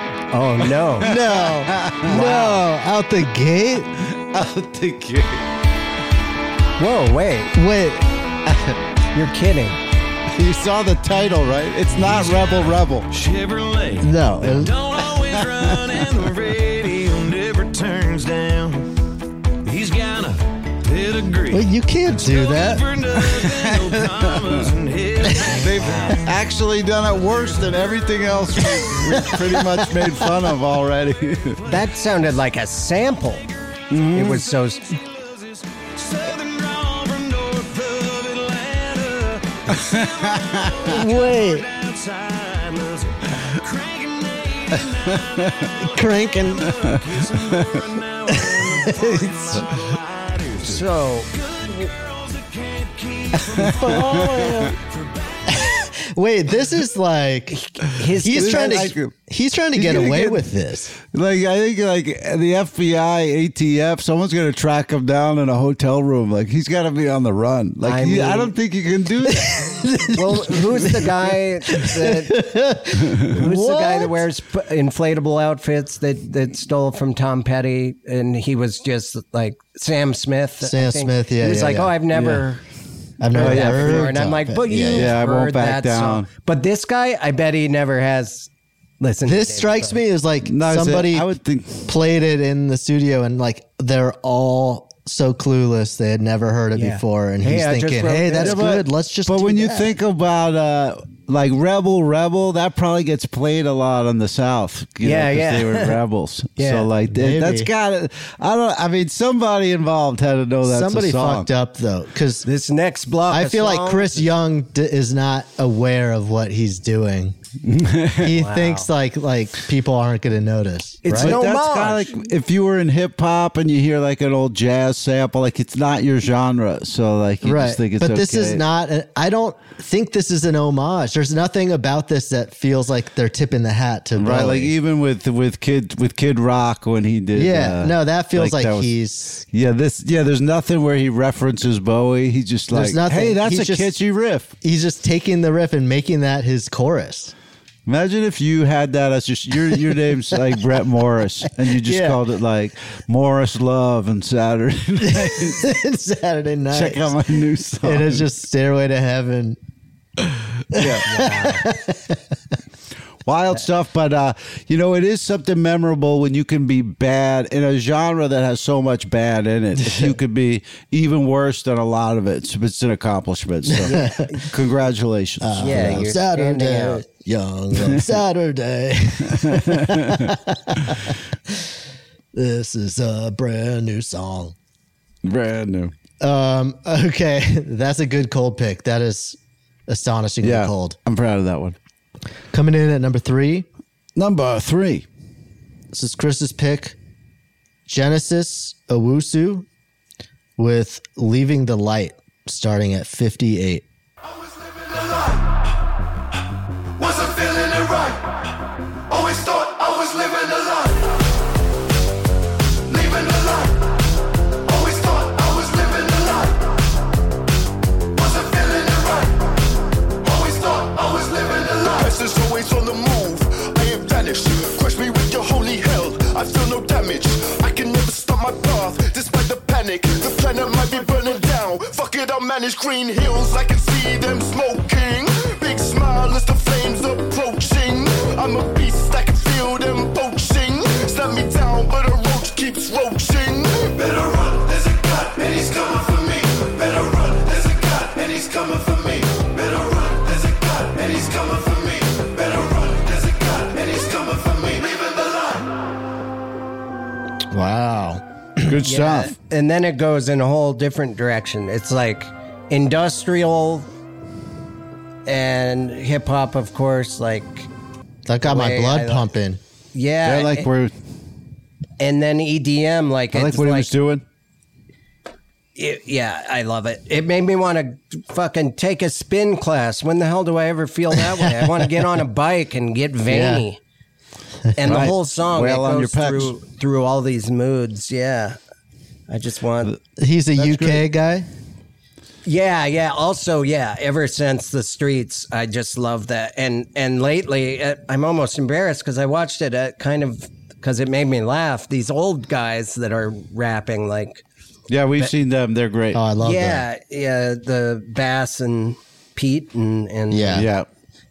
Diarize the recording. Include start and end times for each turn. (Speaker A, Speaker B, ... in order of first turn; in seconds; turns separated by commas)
Speaker A: 0.3-1.1, Speaker B: 1.0-3.9, Speaker C: 1.0-2.5, Speaker C: 4.1-5.5, Speaker A: 6.8-7.5, Speaker B: 7.5-8.1, Speaker A: 9.1-9.8, Speaker C: 10.3-13.1, Speaker D: 12.1-18.9, Speaker B: 14.0-14.7, Speaker C: 15.2-16.0, Speaker D: 19.6-26.1, Speaker B: 21.5-22.9, Speaker C: 23.2-24.7, Speaker C: 25.4-31.6, Speaker A: 25.8-26.2, Speaker D: 27.4-28.2, Speaker B: 28.9-30.3, Speaker A: 31.6-33.5, Speaker C: 33.9-34.4, Speaker A: 34.1-34.9, Speaker D: 35.0-55.7, Speaker C: 39.7-40.9, Speaker B: 40.8-41.7, Speaker C: 45.2-45.7, Speaker B: 45.8-46.7, Speaker C: 46.8-47.8, Speaker B: 48.3-49.4, Speaker A: 50.6-51.3, Speaker B: 53.5-54.7, Speaker C: 53.6-54.7, Speaker B: 55.5-57.6, Speaker A: 57.5-58.9, Speaker B: 58.2-60.9, Speaker C: 58.2-59.1, Speaker C: 59.7-60.4, Speaker C: 61.0-69.8, Speaker A: 67.8-68.5, Speaker B: 69.3-71.1, Speaker A: 70.1-72.4, Speaker B: 71.7-74.2, Speaker A: 73.3-82.6, Speaker B: 80.6-82.0, Speaker C: 82.1-82.4, Speaker B: 83.2-85.1, Speaker A: 83.3-88.5, Speaker C: 83.3-84.1, Speaker C: 84.9-86.3, Speaker A: 89.0-90.0, Speaker B: 89.2-91.3, Speaker C: 90.4-91.8, Speaker B: 91.8-99.9, Speaker A: 96.7-98.6, Speaker C: 98.4-111.5, Speaker A: 105.0-106.0, Speaker A: 106.6-106.9, Speaker B: 107.1-107.7, Speaker B: 110.6-112.5, Speaker A: 112.4-114.3, Speaker B: 113.3-117.4, Speaker C: 117.6-118.3, Speaker B: 118.2-121.4, Speaker A: 118.3-118.9, Speaker A: 121.0-122.2, Speaker C: 121.2-128.6, Speaker B: 127.4-134.7, Speaker C: 134.2-138.9, Speaker B: 137.3-139.4, Speaker C: 139.5-144.5, Speaker B: 142.7-143.9, Speaker B: 144.6-147.3, Speaker C: 147.8-155.7, Speaker B: 151.7-152.2, Speaker B: 155.0-157.2, Speaker C: 156.7-158.2, Speaker B: 157.8-159.6, Speaker C: 160.7-161.1, Speaker B: 160.7-162.2, Speaker A: 161.0-161.6, Speaker C: 163.2-176.1, Speaker B: 173.7-174.3, Speaker A: 173.9-174.4, Speaker B: 175.4-181.7, Speaker A: 175.6-177.0, Speaker C: 177.8-178.0, Speaker C: 179.3-180.9, Speaker B: 182.3-184.5, Speaker C: 185.2-185.9, Speaker B: 186.2-191.0, Speaker C: 190.4-191.8, Speaker B: 192.5-193.7, Speaker C: 194.2-195.1, Speaker B: 195.9-197.0, Speaker B: 197.8-199.7, Speaker B: 200.6-203.8, Speaker E: 204.6-205.4, Speaker E: 207.0-208.2, Speaker E: 209.1-211.0, Speaker E: 212.9-213.9, Speaker E: 214.6-216.6, Speaker E: 218.2-219.4, Speaker E: 220.2-255.6, Speaker B: 257.5-258.7, Speaker C: 258.6-259.3, Speaker A: 258.8-263.9, Speaker A: 265.2-267.7, Speaker B: 268.2-269.6, Speaker A: 268.4-269.3, Speaker A: 269.9-270.7, Speaker C: 270.2-270.9, Speaker A: 272.0-273.9, Speaker C: 273.3-274.2, Speaker A: 275.8-283.8, Speaker B: 283.3-283.6, Speaker A: 284.7-288.6, Speaker C: 284.8-286.5, Speaker A: 289.3-289.9, Speaker B: 290.2-291.5, Speaker C: 290.6-291.0, Speaker A: 292.4-304.4, Speaker C: 304.9-306.2, Speaker B: 306.1-306.9, Speaker A: 306.4-310.6, Speaker B: 310.3-310.7, Speaker C: 310.5-310.9